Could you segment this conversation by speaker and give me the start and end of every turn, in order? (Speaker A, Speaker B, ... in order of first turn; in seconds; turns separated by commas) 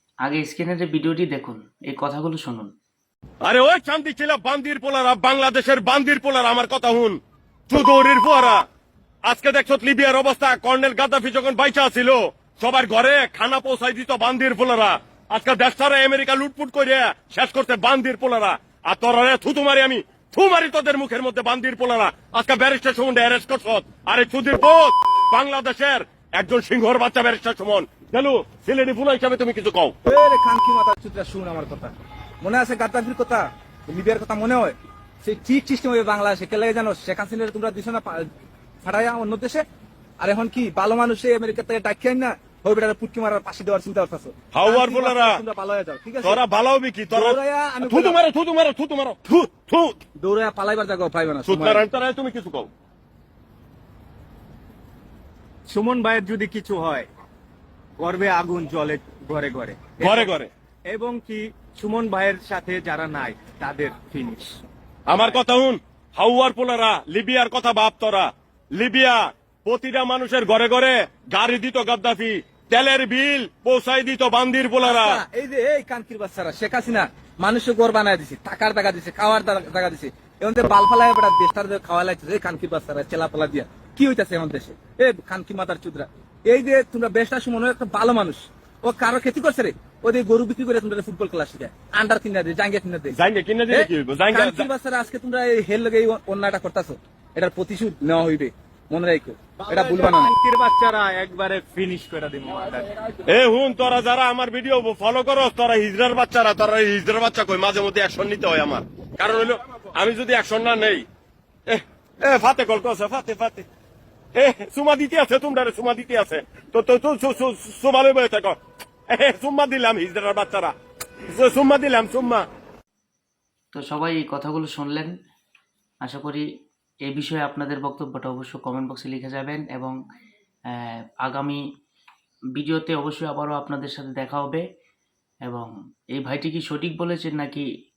Speaker A: 0.2-2.7, Speaker B: 3.4-8.6, Speaker B: 9.2-29.9, Speaker C: 30.0-38.3, Speaker C: 38.8-39.6, Speaker C: 40.2-46.4, Speaker B: 44.5-45.4, Speaker B: 46.2-50.0, Speaker C: 47.1-48.2, Speaker C: 50.2-51.8, Speaker B: 51.5-52.7, Speaker D: 55.7-57.1, Speaker D: 58.0-64.6, Speaker B: 60.0-60.5, Speaker B: 65.1-75.2, Speaker C: 74.8-93.1, Speaker B: 93.1-94.7, Speaker C: 93.7-100.3, Speaker D: 99.7-103.1, Speaker B: 103.3-111.0, Speaker B: 111.7-113.7, Speaker B: 114.3-118.6, Speaker B: 119.1-120.7, Speaker B: 121.3-122.5, Speaker A: 123.7-125.1, Speaker A: 126.0-126.5, Speaker A: 127.0-130.0, Speaker A: 130.7-131.6, Speaker A: 132.6-134.6, Speaker A: 135.4-137.7